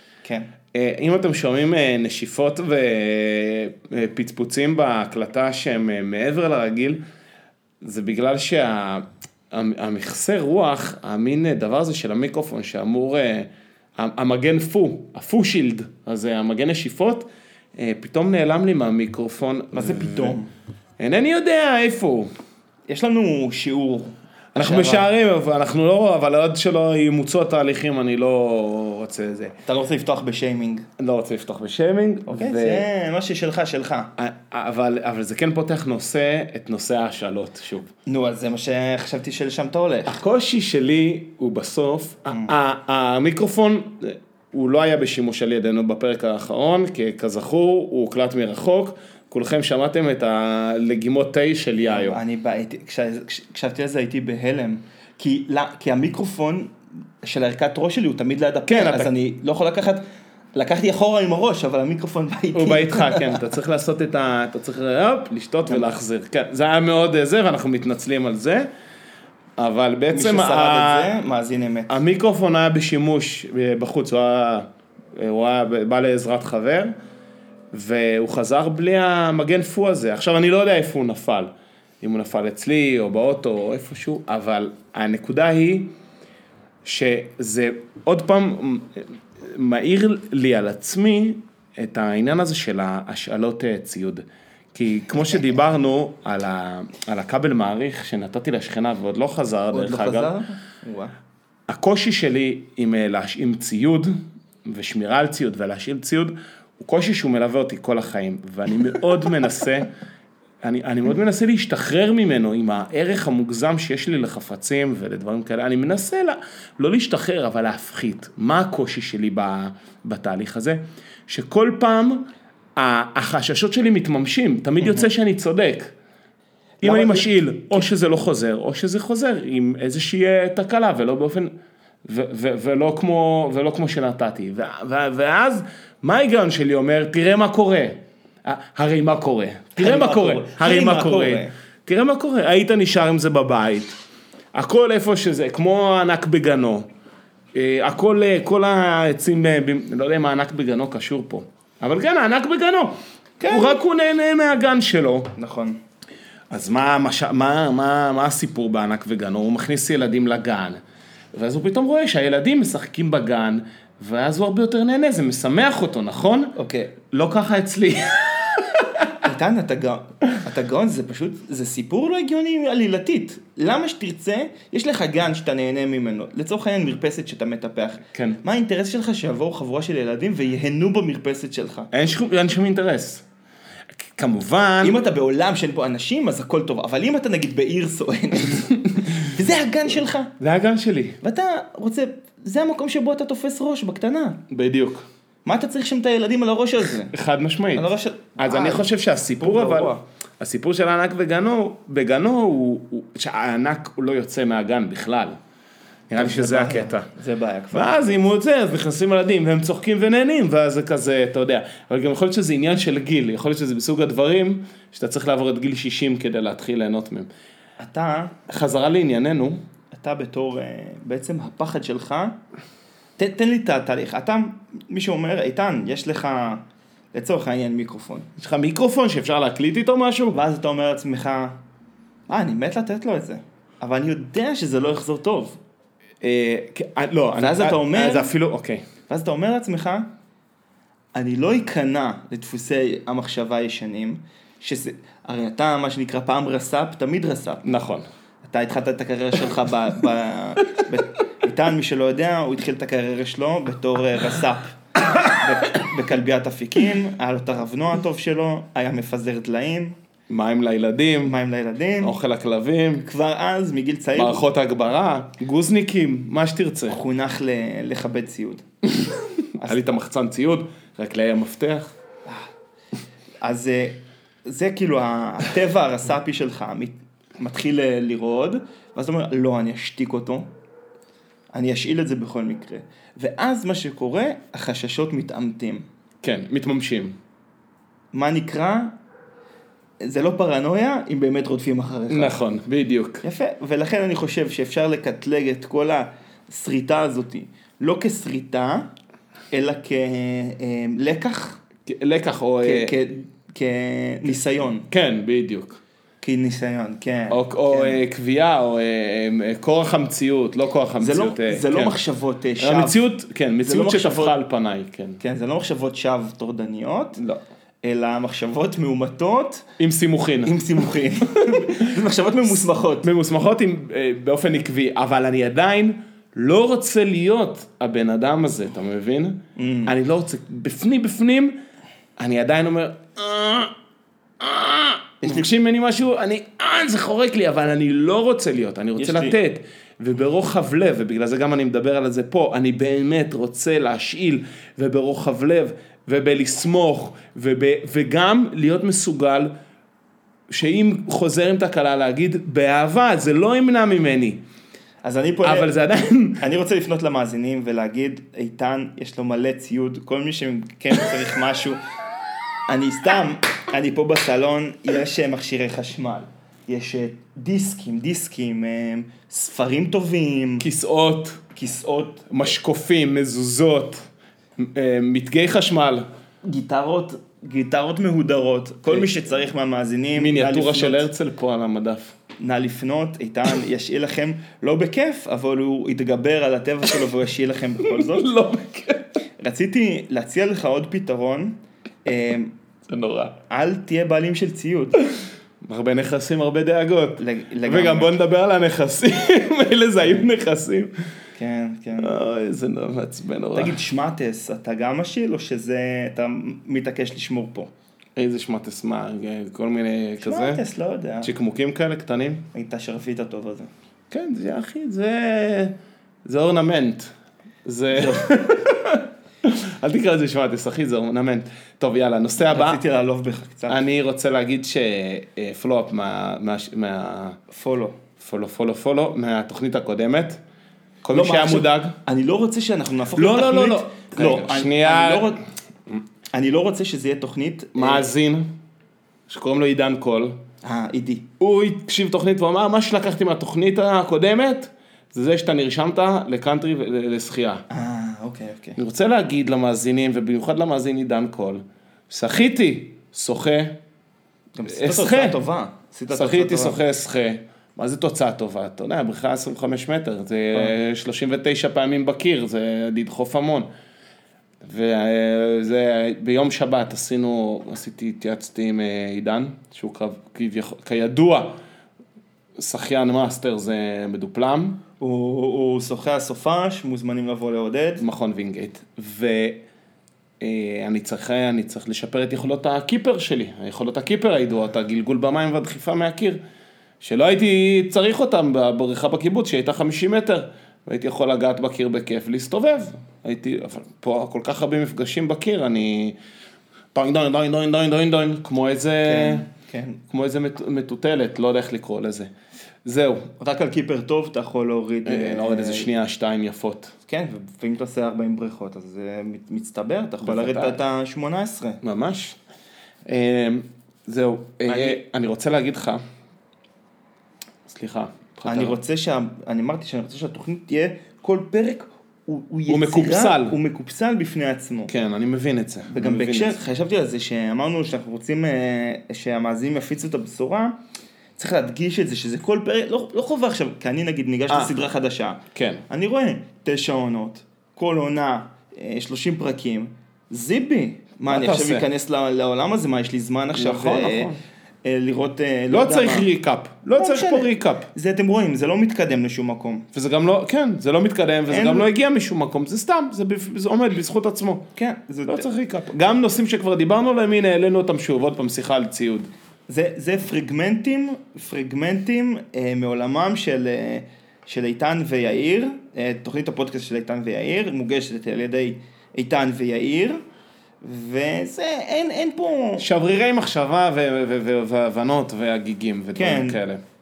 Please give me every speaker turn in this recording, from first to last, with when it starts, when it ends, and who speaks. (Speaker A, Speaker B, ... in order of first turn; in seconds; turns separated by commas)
Speaker A: 0.7-7.0, Speaker A: 7.8-20.4, Speaker B: 19.7-20.5, Speaker A: 21.0-22.3, Speaker B: 22.9-25.1, Speaker A: 24.5-29.5, Speaker B: 29.6-30.9, Speaker A: 31.0-32.9, Speaker B: 32.3-34.1, Speaker A: 34.2-37.9, Speaker B: 38.1-40.2, Speaker A: 40.0-52.2, Speaker B: 51.8-60.0, Speaker A: 58.7-59.1, Speaker B: 60.5-63.4, Speaker A: 62.5-68.7, Speaker A: 69.6-71.1, Speaker B: 70.1-72.0, Speaker A: 71.9-76.9, Speaker A: 77.7-85.9, Speaker A: 86.8-100.3, Speaker B: 99.7-101.1, Speaker A: 101.7-104.1, Speaker A: 104.7-109.9, Speaker A: 110.6-125.9, Speaker B: 126.8-127.9, Speaker A: 126.8-131.5, Speaker A: 132.1-144.0, Speaker B: 139.8-141.5, Speaker A: 144.5-146.9, Speaker A: 147.5-153.0, Speaker B: 153.4-153.8, Speaker A: 153.5-155.3, Speaker B: 155.4-155.8, Speaker A: 156.5-160.8, Speaker A: 161.3-169.1, Speaker B: 166.6-166.9, Speaker B: 169.2-181.9, Speaker A: 178.1-178.4, Speaker A: 181.9-183.2, Speaker A: 184.0-185.0, Speaker B: 184.8-190.3, Speaker A: 190.4-191.2, Speaker B: 191.2-194.4, Speaker A: 194.5-195.1, Speaker B: 195.4-197.1, Speaker A: 197.1-205.4, Speaker B: 197.7-198.9, Speaker B: 199.4-200.0, Speaker A: 206.1-207.1, Speaker B: 206.2-208.2, Speaker A: 207.7-217.3, Speaker B: 217.8-218.4, Speaker A: 218.5-219.6, Speaker B: 219.9-222.4, Speaker B: 223.2-226.6, Speaker B: 227.1-228.3, Speaker A: 228.4-230.4, Speaker B: 230.3-231.6, Speaker B: 232.3-235.6, Speaker A: 236.2-238.8, Speaker B: 237.4-238.3, Speaker B: 239.1-240.1, Speaker B: 241.2-247.7, Speaker A: 247.6-248.1, Speaker B: 248.4-254.8, Speaker B: 255.3-260.0, Speaker A: 260.3-261.4, Speaker B: 261.2-262.2, Speaker A: 262.0-263.1, Speaker B: 263.0-264.4, Speaker A: 264.2-267.0, Speaker B: 266.9-268.6, Speaker A: 269.6-271.9, Speaker B: 273.4-280.5, Speaker B: 281.5-285.8, Speaker A: 286.2-287.2, Speaker B: 288.1-288.9, Speaker B: 290.0-292.4, Speaker A: 292.1-293.2, Speaker B: 293.2-298.9, Speaker B: 299.5-301.6, Speaker A: 301.9-303.0, Speaker B: 302.6-304.9, Speaker A: 304.9-305.8, Speaker B: 306.2-308.0, Speaker A: 307.3-311.9, Speaker B: 311.0-313.0, Speaker A: 312.6-315.2, Speaker B: 313.6-314.4, Speaker B: 315.2-317.2, Speaker B: 317.8-319.7, Speaker A: 319.8-320.7, Speaker B: 320.4-323.1, Speaker A: 321.5-321.8, Speaker A: 323.0-331.6, Speaker B: 329.6-329.9, Speaker A: 332.2-333.7, Speaker A: 334.4-349.5, Speaker B: 335.2-335.5, Speaker B: 339.0-339.4, Speaker A: 350.5-354.4, Speaker B: 355.0-355.8, Speaker A: 355.4-356.4, Speaker B: 356.4-361.8, Speaker B: 362.7-370.7, Speaker A: 370.6-371.4, Speaker B: 371.5-372.3, Speaker A: 372.3-376.1, Speaker B: 376.4-381.1, Speaker A: 378.9-379.1, Speaker A: 380.2-382.1, Speaker B: 382.4-388.3, Speaker A: 387.9-389.1, Speaker B: 389.4-392.5, Speaker A: 392.9-393.3, Speaker B: 393.5-395.0, Speaker A: 395.6-400.9, Speaker B: 397.2-398.1, Speaker B: 401.4-402.1, Speaker A: 402.0-403.8, Speaker B: 403.5-407.7, Speaker A: 408.2-410.6, Speaker B: 410.2-411.3, Speaker A: 411.2-412.4, Speaker B: 412.5-413.7, Speaker A: 414.1-417.1, Speaker A: 417.6-422.8, Speaker B: 417.9-418.3, Speaker B: 422.5-423.8, Speaker A: 423.7-427.4, Speaker B: 427.5-428.0, Speaker A: 428.2-430.4, Speaker A: 431.0-432.0, Speaker B: 431.1-435.4, Speaker A: 433.2-435.3, Speaker B: 436.3-438.1, Speaker A: 437.8-438.5, Speaker A: 439.3-440.4, Speaker B: 440.6-441.3, Speaker A: 441.4-447.6, Speaker B: 447.7-448.8, Speaker A: 448.8-453.8, Speaker B: 454.6-456.8, Speaker A: 454.7-455.4, Speaker A: 456.1-463.7, Speaker A: 464.6-471.6, Speaker A: 472.6-474.8, Speaker B: 475.0-478.0, Speaker A: 478.0-479.6, Speaker A: 480.4-486.4, Speaker A: 487.0-496.2, Speaker A: 496.9-499.4, Speaker B: 499.1-500.0, Speaker A: 500.1-502.3, Speaker A: 502.9-503.3, Speaker B: 503.4-505.9, Speaker A: 505.1-506.9, Speaker B: 507.1-511.8, Speaker A: 510.2-510.8, Speaker A: 511.8-512.4, Speaker A: 513.1-516.0, Speaker B: 514.7-515.0, Speaker A: 517.7-518.8, Speaker B: 518.5-524.9, Speaker A: 522.7-523.6, Speaker A: 524.9-526.6, Speaker B: 525.9-530.8, Speaker B: 531.4-544.3, Speaker A: 535.5-535.8, Speaker A: 541.3-541.9, Speaker A: 543.5-544.4, Speaker B: 544.8-546.3, Speaker A: 545.7-547.9, Speaker B: 547.0-549.9, Speaker A: 549.9-554.7, Speaker B: 551.5-551.9, Speaker B: 554.8-555.5, Speaker A: 555.3-559.3, Speaker B: 559.7-570.2, Speaker B: 570.8-572.9, Speaker A: 572.8-576.8, Speaker B: 576.1-576.6